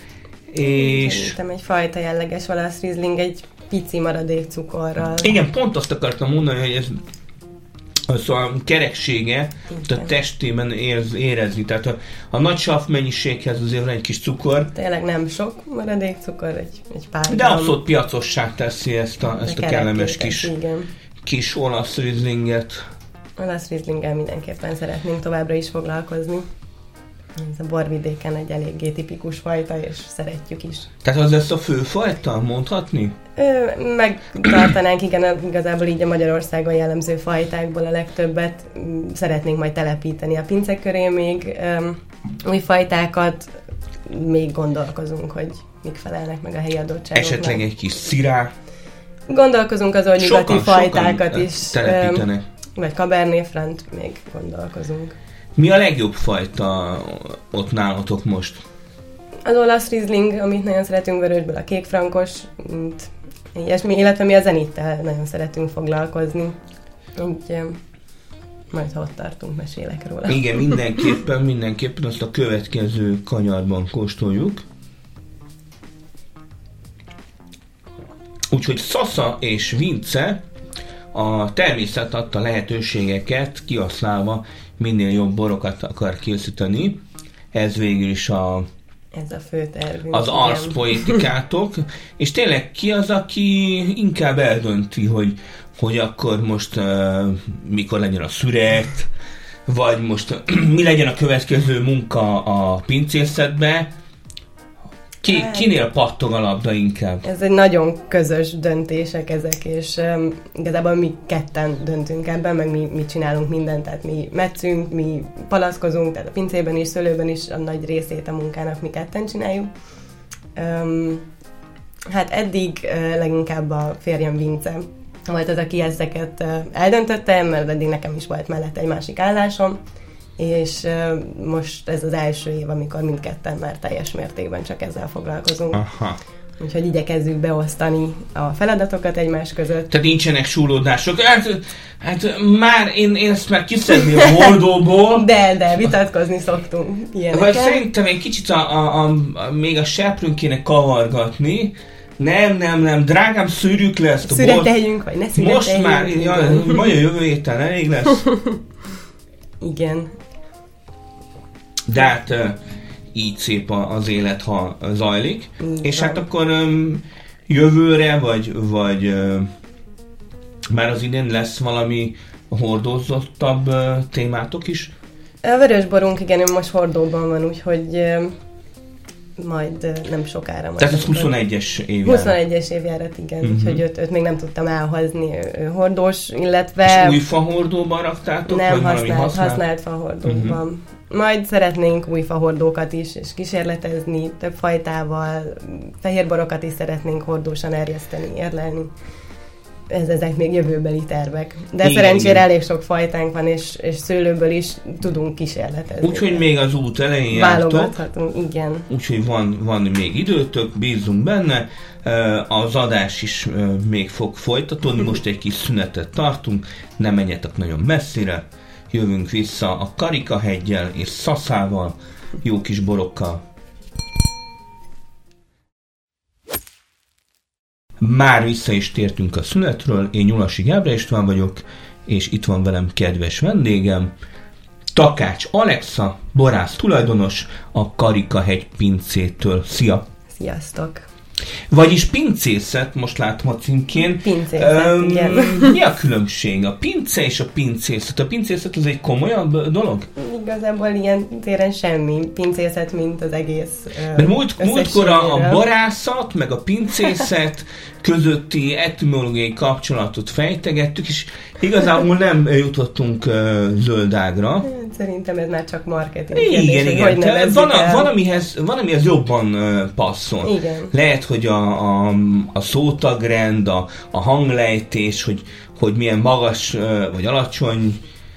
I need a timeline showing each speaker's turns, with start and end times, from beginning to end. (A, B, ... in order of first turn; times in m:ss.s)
0:00.5-0:01.4 A
0:00.6-0:05.4 B
0:05.2-0:07.0 A
0:08.1-0:14.7 A
0:09.7-0:10.1 B
0:14.7-0:17.8 B
0:17.3-0:20.5 A
0:19.3-0:20.9 B
0:21.2-0:22.8 A
0:23.4-0:26.4 B
0:27.4-0:30.9 B
0:31.0-0:33.1 A
0:33.4-0:43.5 B
0:44.1-0:47.6 B
0:47.2-0:48.5 A
0:49.3-0:55.2 B
0:50.2-0:52.4 A
0:55.6-0:58.6 A
0:59.4-1:06.6 B
1:07.2-1:07.8 B
1:08.7-1:11.0 B
1:10.3-1:14.6 A
1:18.5-1:20.4 A
1:21.1-1:27.0 A
1:27.5-1:28.7 A
1:29.1-1:31.2 B
1:30.1-1:39.1 A
1:39.7-1:43.9 A
1:45.2-1:47.2 A
1:45.3-1:45.8 B
1:47.2-1:59.7 B
2:00.6-2:01.3 B
2:02.1-2:09.8 B
2:10.4-2:15.8 B
2:15.7-2:16.2 A
2:16.6-2:19.9 B
2:19.9-2:25.3 A
2:24.1-2:24.5 B
2:25.1-2:27.8 B
2:27.3-2:34.7 A
2:34.2-2:37.0 B
2:35.4-2:38.2 A
2:39.6-2:40.1 B
2:41.9-2:42.6 A
2:43.1-2:49.5 A
2:45.6-2:46.3 B
2:50.7-2:54.9 A
2:55.4-2:58.3 B
2:59.4-3:01.3 B
3:00.8-3:02.4 A
3:02.0-3:07.2 B
3:03.4-3:03.8 A
3:06.8-3:09.6 A
3:08.5-3:18.9 B
3:10.2-3:10.6 A
3:19.9-3:26.5 B
3:21.8-3:22.5 A
3:26.0-3:28.0 A
3:27.3-3:28.9 B
3:28.9-3:43.4 A
3:48.0-3:54.1 A
3:55.0-4:00.0 A
4:00.3-4:01.1 B
4:01.7-4:10.1 A
4:04.0-4:05.8 B
4:10.2-4:15.6 B
4:14.2-4:24.7 A
4:24.6-4:28.1 B
4:26.3-4:38.0 A
4:30.4-4:30.9 B